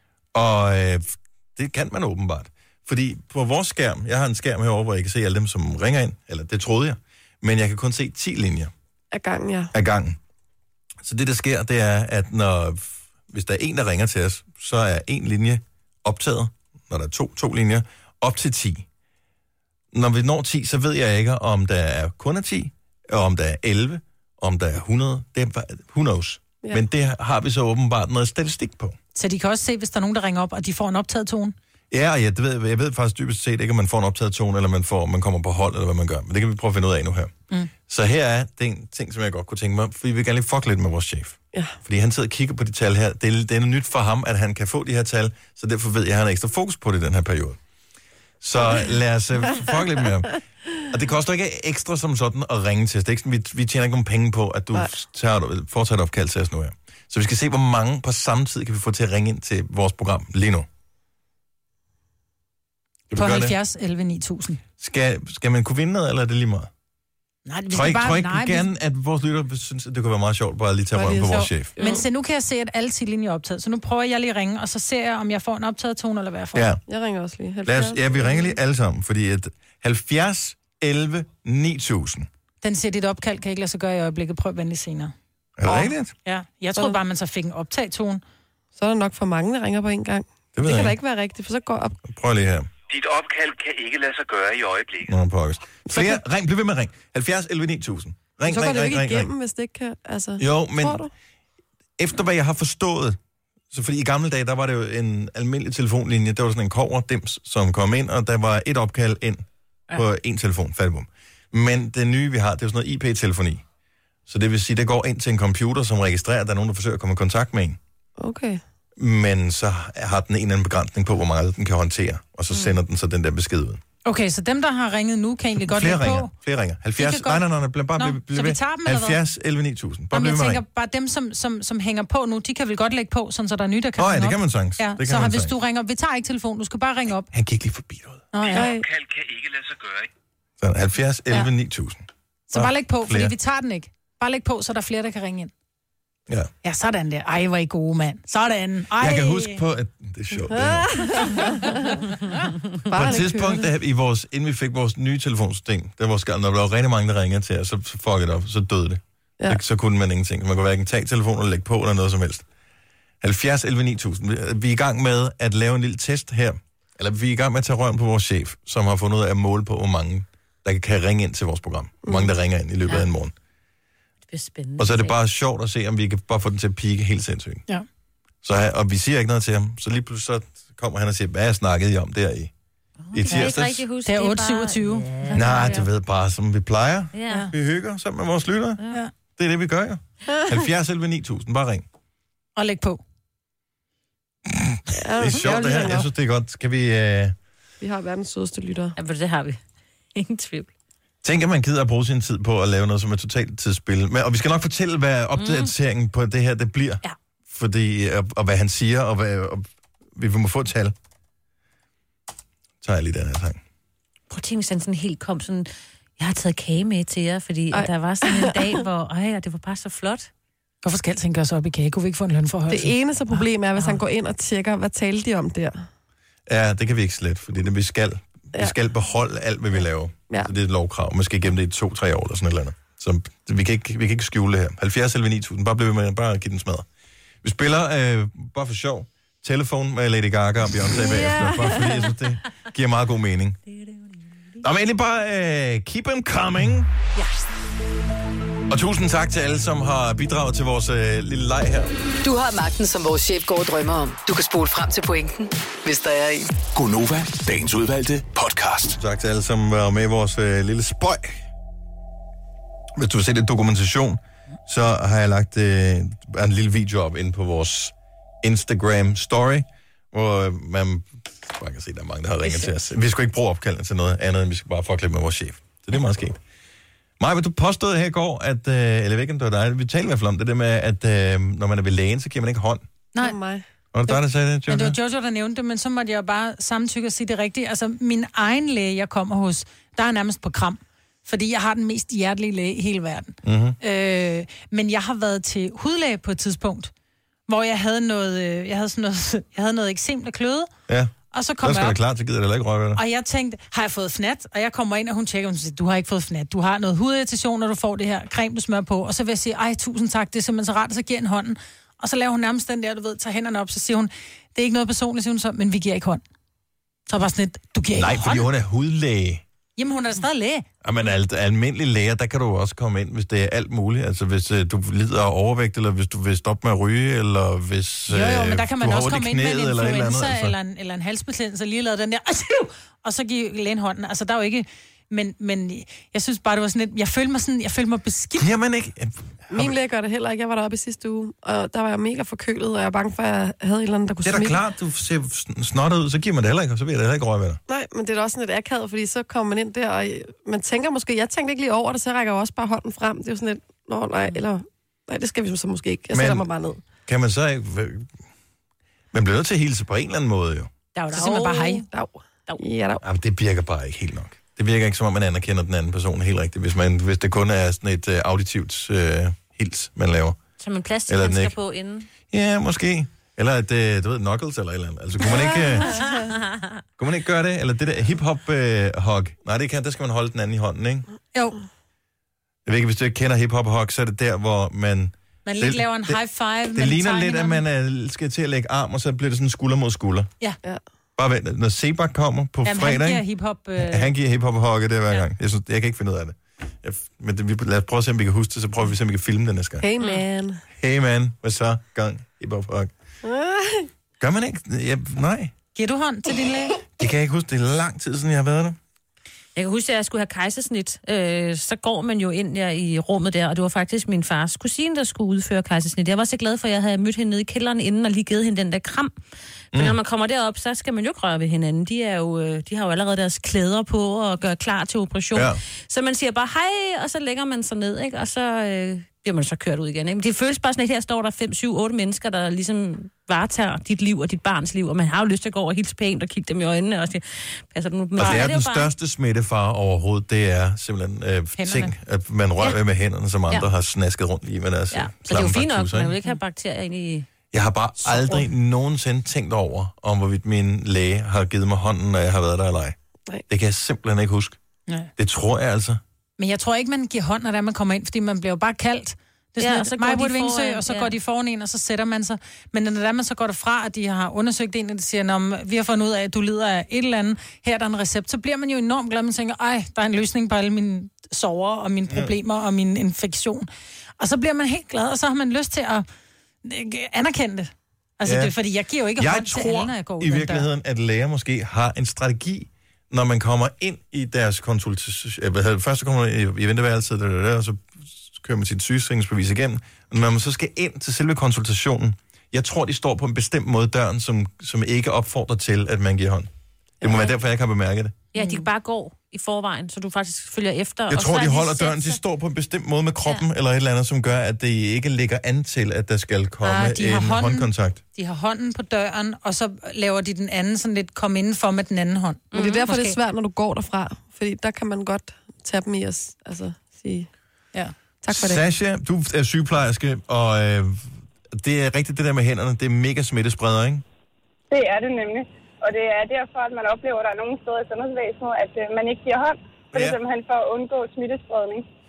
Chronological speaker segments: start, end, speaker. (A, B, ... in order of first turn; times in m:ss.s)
0:00.3-0:08.7 A
0:09.1-0:09.7 B
0:09.7-0:10.2 A
0:11.0-0:18.8 A
0:19.9-0:29.0 A
0:29.1-0:31.5 C
0:31.9-0:37.3 A
0:37.9-0:47.6 A
0:48.4-1:00.7 A
1:03.1-1:03.5 A
1:03.1-1:04.6 C
1:04.8-1:06.7 A
1:07.4-1:08.7 C
1:07.7-1:11.7 A
1:10.9-1:12.0 B
1:11.2-1:16.6 C
1:16.5-1:16.8 A
1:16.9-1:18.6 B
1:17.6-1:22.3 A
1:22.6-1:25.1 C
1:25.6-1:26.1 A
1:26.2-1:28.2 C
1:28.8-1:32.0 B
1:30.5-1:31.0 A
1:32.0-1:32.7 A
1:33.1-1:33.8 D
1:33.4-1:34.8 E
1:34.9-1:39.3 A
1:35.9-1:36.2 B
1:38.4-1:41.1 B
1:40.4-1:41.0 A
1:42.0-1:43.2 A
1:43.7-1:53.6 A
1:54.3-1:57.8 A
1:58.2-1:58.6 B
1:59.0-2:03.8 A
2:04.0-2:06.3 C
2:05.6-2:10.6 A
2:07.0-2:07.4 C
2:08.0-2:09.2 C
2:10.1-2:17.3 C
2:14.0-2:15.5 A
2:17.3-2:18.2 A
2:18.3-2:18.7 C
2:18.5-2:18.9 B
2:19.1-2:20.0 E
2:20.6-2:23.3 A
2:22.5-2:25.5 C
2:26.6-2:29.6 C
2:29.0-2:31.2 A
2:30.5-2:32.1 B
2:32.9-2:33.6 B
2:32.9-2:42.4 A
2:43.2-2:53.3 A
2:54.3-2:55.1 F
2:54.8-2:57.6 A
2:58.4-3:02.5 A
3:03.0-3:05.7 F
3:03.1-3:03.8 A
3:04.0-3:05.8 C
3:05.3-3:08.8 A
3:07.1-3:07.5 F
3:09.4-3:11.8 A
3:12.6-3:13.0 C
3:14.5-3:17.4 A
3:15.0-3:16.0 B
3:17.8-3:18.9 B
3:19.0-3:19.6 F
3:20.1-3:20.7 F
3:21.2-3:30.9 A
3:25.4-3:25.7 F
3:32.8-3:33.6 A
3:34.3-3:40.3 F
3:37.7-3:38.7 B
3:40.8-3:42.9 C
3:42.7-3:45.8 B
3:46.5-3:56.9 A
3:57.4-4:03.6 A
4:04.6-4:06.9 A
4:08.7-4:12.0 A
4:12.2-4:16.5 G
4:16.7-4:19.0 D
4:19.0-4:21.4 A
4:23.0-4:36.4 A
4:37.2-4:42.8 A
4:43.2-4:43.6 B
4:43.9-4:45.0 A
4:44.1-4:56.9 C
4:53.4-4:53.8 A
4:57.5-5:00.7 C
5:00.9-5:03.0 A
5:01.3-5:02.0 C
5:03.0-5:16.2 C
5:17.1-5:18.4 C
5:17.9-5:19.4 A
5:19.8-5:20.6 C
5:20.8-5:30.6 A
5:28.1-5:38.5 C
5:38.4-5:39.8 A
5:39.5-5:44.6 B
5:44.2-5:47.6 A
5:47.7-5:56.8 B
5:56.1-5:56.4 A
5:57.0-5:58.1 A
5:59.1-6:00.7 A
6:01.0-6:01.9 F
6:01.0-6:01.8 C
6:01.9-6:03.0 B
6:03.0-6:10.4 A
6:10.6-6:12.1 F
6:11.1-6:11.5 A
6:12.3-6:16.3 A
6:17.0-6:21.1 A
6:21.3-6:21.6 C
6:22.6-6:26.2 A
6:25.4-6:27.6 C
6:26.7-6:30.3 A
6:31.2-6:33.2 A
6:32.6-6:34.1 C
6:33.8-6:39.9 A
6:39.8-6:40.6 B
6:40.8-6:42.9 A
6:43.2-6:43.9 B
6:44.2-6:45.5 A
6:45.7-6:46.8 C
6:47.0-6:48.8 A
6:49.6-6:59.1 F
6:59.7-7:18.9 F
7:05.3-7:05.6 A
7:18.2-7:26.1 A
7:21.6-7:21.9 C
7:24.9-7:27.3 F
7:27.5-7:33.0 A
7:28.0-7:28.4 F
7:33.5-7:34.6 A
7:35.2-7:36.0 A
7:36.4-7:53.7 C
7:39.6-7:41.1 F
7:52.1-7:52.3 A
7:54.2-7:56.0 C
7:56.6-8:00.7 C
7:58.2-7:58.5 A
7:59.2-8:16.5 A
8:17.0-8:18.2 A
8:18.3-8:22.2 F
8:18.4-8:18.6 C
8:21.1-8:28.0 A
8:26.6-8:33.2 C
8:32.5-8:32.8 F
8:32.5-8:37.3 B
8:38.2-8:38.6 B
8:38.3-8:44.0 A
8:44.7-8:51.8 H
8:49.9-8:50.2 A